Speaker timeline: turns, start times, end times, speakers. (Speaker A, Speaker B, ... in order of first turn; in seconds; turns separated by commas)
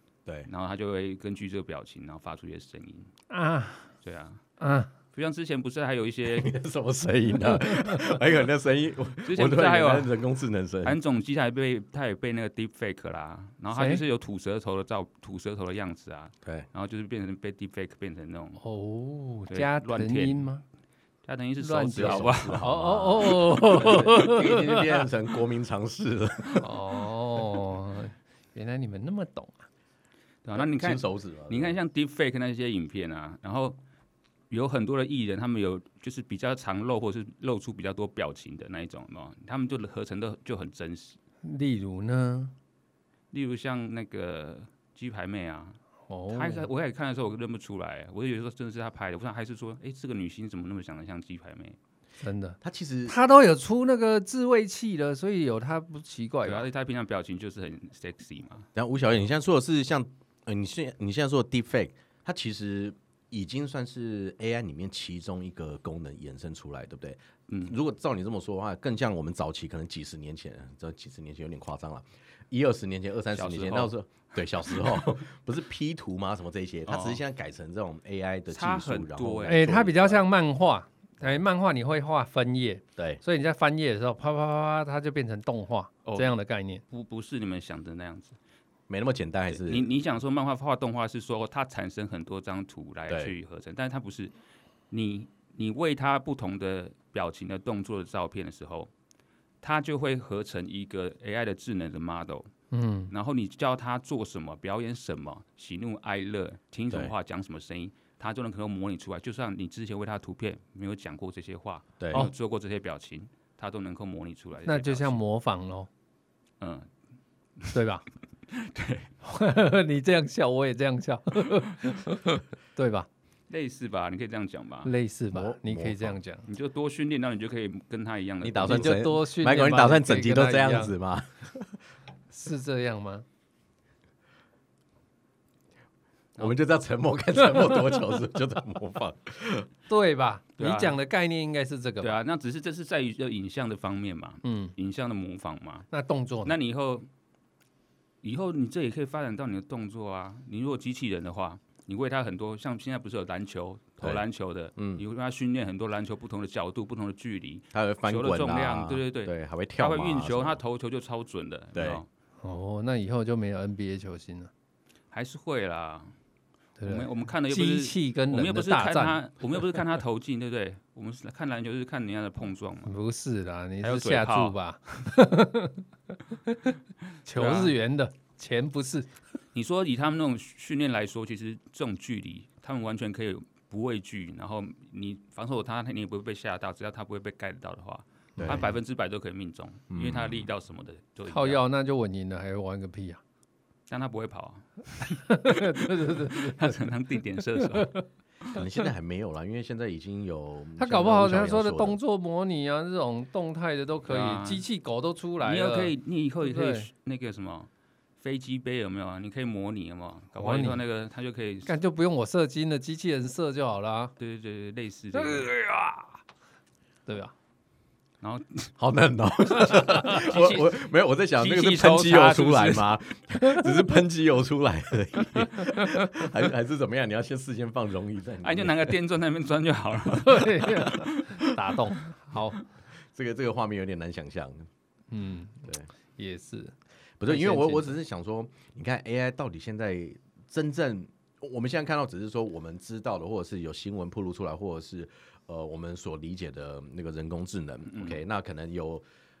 Speaker A: 0.5-3.1, Speaker B: 3.3-3.9, Speaker A: 4.0-4.4, Speaker B: 4.6-4.9, Speaker A: 5.1-6.5, Speaker C: 6.2-11.0, Speaker B: 7.7-8.0, Speaker A: 9.2-10.1, Speaker A: 10.8-18.6, Speaker B: 13.7-14.0, Speaker B: 18.6-20.6, Speaker A: 19.5-20.5, Speaker A: 21.2-22.6, Speaker B: 21.6-25.0, Speaker C: 21.9-26.7, Speaker B: 26.6-29.6, Speaker A: 30.4-33.8, Speaker C: 30.5-31.8, Speaker A: 34.5-41.2, Speaker B: 41.4-42.5, Speaker A: 43.3-51.8, Speaker B: 46.1-46.7, Speaker B: 52.2-56.6, Speaker C: 52.6-53.1, Speaker A: 56.4-58.7, Speaker C: 58.7-80.2, Speaker A: 67.5-67.7, Speaker A: 73.3-73.9, Speaker A: 76.9-77.2, Speaker A: 78.5-79.8, Speaker B: 79.4-86.8, Speaker A: 86.0-86.3, Speaker A: 86.9-88.4, Speaker C: 88.9-89.9, Speaker A: 89.5-94.3, Speaker C: 93.1-93.3, Speaker A: 94.9-98.9, Speaker A: 99.6-102.5, Speaker B: 102.7-103.1, Speaker A: 103.1-115.2, Speaker C: 112.0-112.3, Speaker B: 114.7-115.9, Speaker A: 116.6-116.9, Speaker B: 117.7-118.0, Speaker A: 118.5-119.1, Speaker B: 119.2-123.1, Speaker A: 123.5-124.9, Speaker B: 124.8-126.5, Speaker C: 125.3-126.2, Speaker A: 126.5-128.9, Speaker C: 128.4-131.8, Speaker B: 128.6-130.9, Speaker B: 132.3-133.2, Speaker C: 136.4-139.7, Speaker B: 139.9-142.2, Speaker A: 140.6-141.0, Speaker A: 142.0-145.9, Speaker B: 144.4-144.7, Speaker B: 145.9-146.5, Speaker A: 146.4-147.1, Speaker A: 148.2-162.1, Speaker C: 154.8-155.0, Speaker C: 157.7-160.6, Speaker C: 161.7-162.0, Speaker B: 162.4-164.5, Speaker A: 165.1-166.1, Speaker B: 166.8-169.2, Speaker A: 166.8-172.9, Speaker B: 172.9-176.6, Speaker A: 173.8-174.6, Speaker B: 177.2-179.2, Speaker A: 177.3-177.8, Speaker A: 179.5-191.6, Speaker B: 188.3-188.7, Speaker C: 188.4-188.7, Speaker C: 189.9-190.5, Speaker B: 191.3-193.2, Speaker A: 193.9-197.9, Speaker B: 195.2-196.8, Speaker B: 197.5-198.1, Speaker C: 198.5-202.0, Speaker B: 200.8-206.9, Speaker A: 204.1-204.7, Speaker A: 205.4-211.7, Speaker B: 210.3-210.8, Speaker B: 211.6-214.1, Speaker A: 214.2-215.5, Speaker B: 215.1-216.2, Speaker B: 217.1-217.3, Speaker A: 218.2-218.7, Speaker C: 218.8-229.0, Speaker A: 219.7-220.8, Speaker A: 221.3-222.9, Speaker B: 225.6-226.0, Speaker A: 228.4-231.4, Speaker B: 230.1-232.6, Speaker C: 233.1-234.7, Speaker B: 235.1-236.7, Speaker C: 235.6-235.9, Speaker C: 237.2-249.0, Speaker B: 237.2-238.0, Speaker A: 247.9-248.2